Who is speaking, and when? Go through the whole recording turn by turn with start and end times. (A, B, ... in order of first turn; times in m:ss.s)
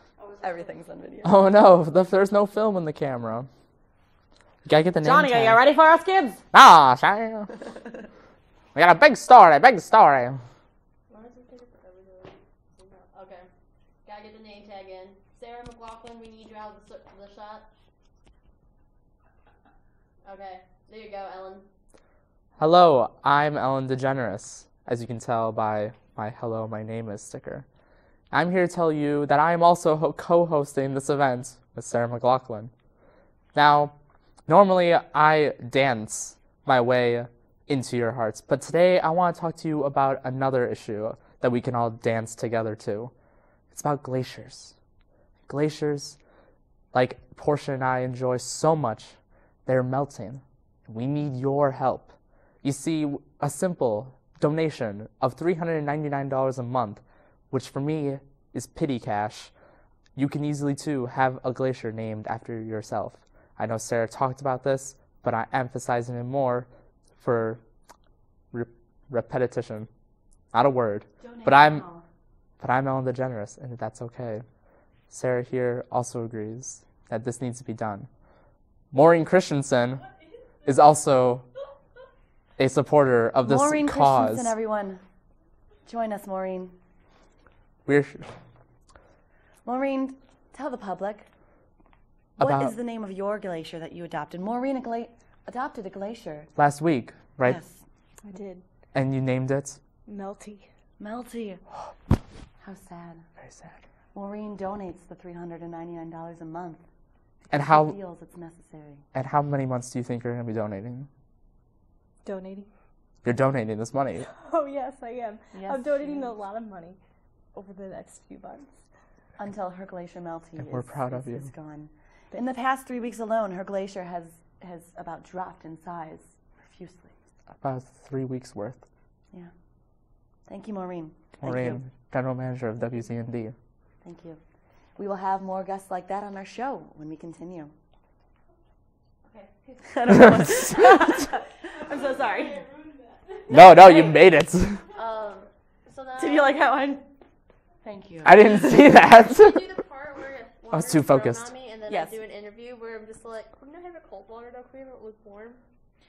0:00.2-0:00.7 A
0:00.4-0:01.4 B
0:01.2-0:03.5 C
0:04.6-0:05.6 C
0:05.0-0:06.4 B
0:06.5-0:07.5 C
0:08.8-0:10.4 C
0:11.1-0:13.5 D
0:14.0-0:17.7 D
0:20.2-0:21.6 D
0:22.6-0:27.7 C
0:28.3-0:32.7 C
0:33.5-0:33.9 C
0:34.5-0:43.1 C
0:43.7-0:44.7 C
0:45.5-0:46.2 C
0:46.9-0:59.5 C
1:00.2-1:07.6 C
1:08.5-1:09.9 C
1:10.5-1:11.8 C
1:11.2-1:12.0 B
1:12.6-1:14.4 C
1:15.1-1:18.1 C
1:18.9-1:20.0 C
1:20.6-1:21.4 C
1:22.6-1:24.5 C
1:23.4-1:25.0 B
1:25.9-1:26.7 B
1:27.9-1:28.4 C
1:29.6-1:31.3 B
1:32.4-1:32.7 C
1:32.4-1:36.5 B
1:36.6-1:37.6 C
1:37.4-1:37.8 B
1:38.2-1:38.6 A
1:38.9-1:39.8 C
1:40.1-1:40.6 A
1:41.0-1:41.6 B
1:42.6-1:43.2 B
1:43.4-1:43.8 C
1:44.1-1:46.8 B
1:47.5-1:49.0 B
1:47.5-1:48.0 C
1:49.1-1:51.1 C
1:52.2-1:52.7 A
1:53.2-1:54.3 C
1:54.3-1:57.0 A
1:55.5-1:56.3 B
1:57.6-1:58.7 A
1:59.4-2:07.1 B
2:00.6-2:01.5 C
2:07.6-2:08.8 C
2:10.5-2:11.8 B
2:11.4-2:13.6 C
2:14.0-2:14.4 B
2:15.0-2:17.7 B
2:19.2-2:20.2 D
2:19.9-2:22.6 B
2:20.1-2:21.2 C
2:21.3-2:23.9 A
2:23.5-2:24.2 D
2:23.5-2:24.8 C
2:24.9-2:26.6 D
2:26.2-2:27.0 B
2:27.8-2:28.6 B
2:28.2-2:29.6 C
2:29.2-2:35.6 D
2:30.7-2:31.5 C
2:31.9-2:32.2 B